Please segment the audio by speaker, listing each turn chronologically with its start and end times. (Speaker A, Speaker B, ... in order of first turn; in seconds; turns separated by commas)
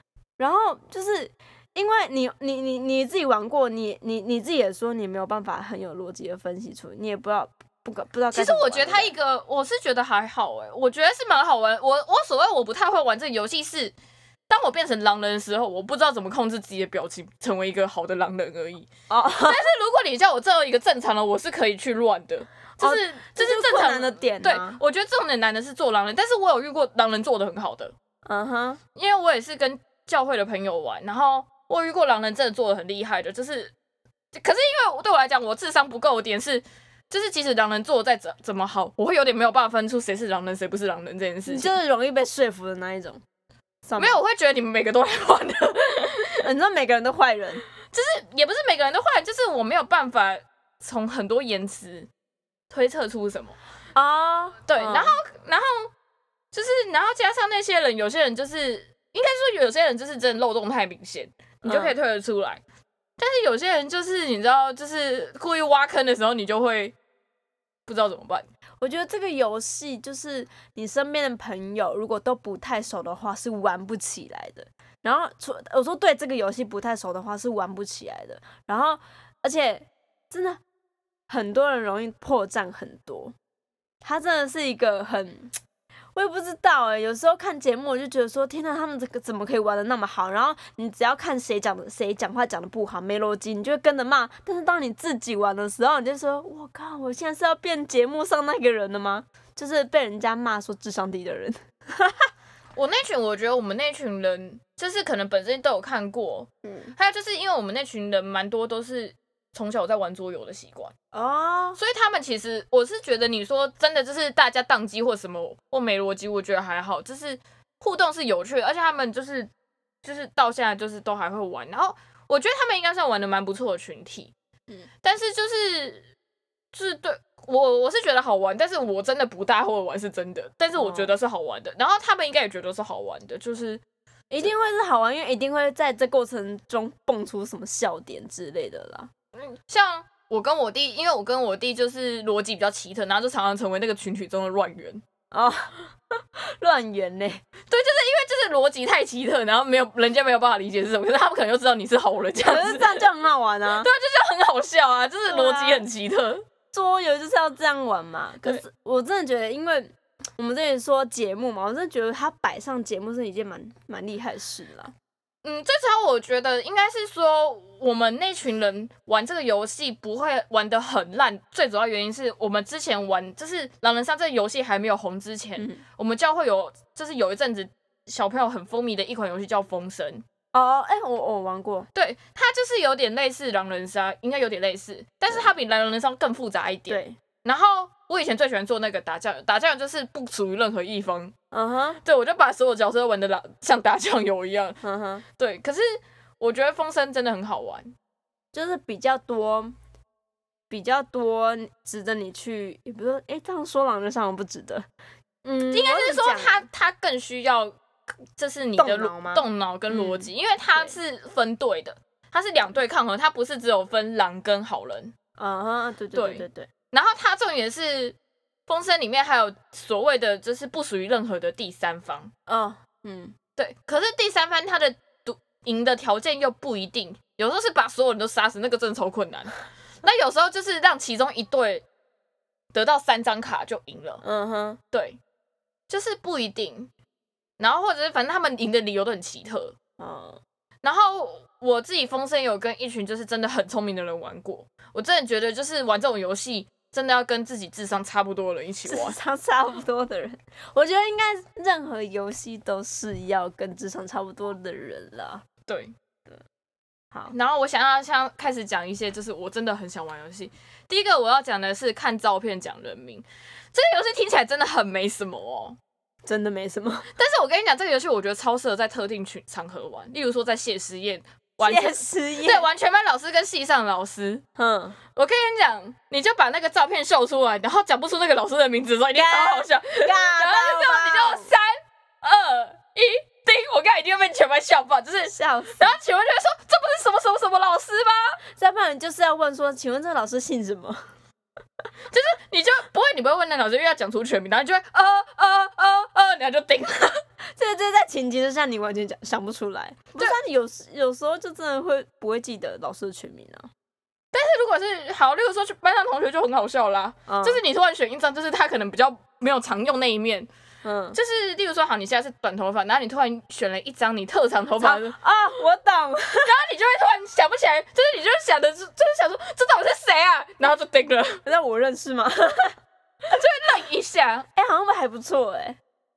Speaker A: 0.4-9.1, Speaker B: 8.3-13.9, Speaker B: 14.5-18.9, Speaker A: 19.1-19.6, Speaker B: 19.4-27.9, Speaker A: 22.8-24.8, Speaker A: 28.2-28.8, Speaker B: 29.0-33.7, Speaker B: 34.3-41.7, Speaker A: 41.5-43.2, Speaker A: 43.9-44.2, Speaker B: 44.0-46.5, Speaker A: 46.4-47.6, Speaker B: 47.9-52.1, Speaker B: 52.7-53.6, Speaker A: 54.0-55.2, Speaker B: 54.7-55.9, Speaker B: 56.5-62.6, Speaker A: 61.6-62.0, Speaker B: 63.2-67.0, Speaker B: 67.9-68.5, Speaker A: 68.8-80.6, Speaker A: 81.3-83.3, Speaker A: 84.0-85.5, Speaker A: 86.1-102.3, Speaker B: 102.8-110.9, Speaker A: 106.6-106.9, Speaker A: 111.1-111.8, Speaker B: 111.8-119.5, Speaker B: 120.0-124.3, Speaker B: 125.0-126.1, Speaker B: 126.7-133.8, Speaker A: 130.8-131.1, Speaker A: 134.3-139.1, Speaker B: 139.4-145.0, Speaker A: 145.3-147.4, Speaker B: 147.7-153.1, Speaker A: 152.4-153.9, Speaker B: 153.8-156.4, Speaker A: 155.3-155.8, Speaker A: 156.7-164.9, Speaker B: 165.4-180.2, Speaker A: 180.5-181.9, Speaker B: 181.9-191.3, Speaker A: 186.9-187.2, Speaker A: 191.5-192.0, Speaker B: 192.0-194.8, Speaker A: 194.8-195.2, Speaker B: 195.4-197.9, Speaker A: 198.5-199.8, Speaker A: 200.7-204.9, Speaker A: 205.4-206.7, Speaker B: 205.7-207.7, Speaker B: 208.4-215.1, Speaker A: 208.8-210.9, Speaker A: 215.4-216.7, Speaker B: 216.1-218.2, Speaker B: 218.7-222.3, Speaker A: 222.5-223.3, Speaker B: 223.6-231.8, Speaker B: 232.7-234.2, Speaker A: 234.2-234.8, Speaker B: 234.9-235.2, Speaker B: 235.9-236.9, Speaker B: 237.6-239.8, Speaker A: 240.0-240.4, Speaker B: 240.8-249.2, Speaker A: 248.9-255.4, Speaker B: 255.7-255.9, Speaker B: 257.3-265.8, Speaker A: 266.3-267.1, Speaker B: 267.1-274.4, Speaker A: 271.6-272.7, Speaker A: 274.6-275.0, Speaker B: 275.1-288.4, Speaker A: 279.1-281.5, Speaker A: 285.3-286.0, Speaker A: 288.5-291.1, Speaker B: 292.1-297.2, Speaker A: 297.4-303.7, Speaker B: 304.3-310.5, Speaker A: 307.3-307.6, Speaker A: 310.8-311.2, Speaker B: 311.1-315.2, Speaker A: 314.8-316.5, Speaker B: 316.4-321.4, Speaker A: 321.4-322.8, Speaker B: 323.2-324.5, Speaker A: 324.6-325.8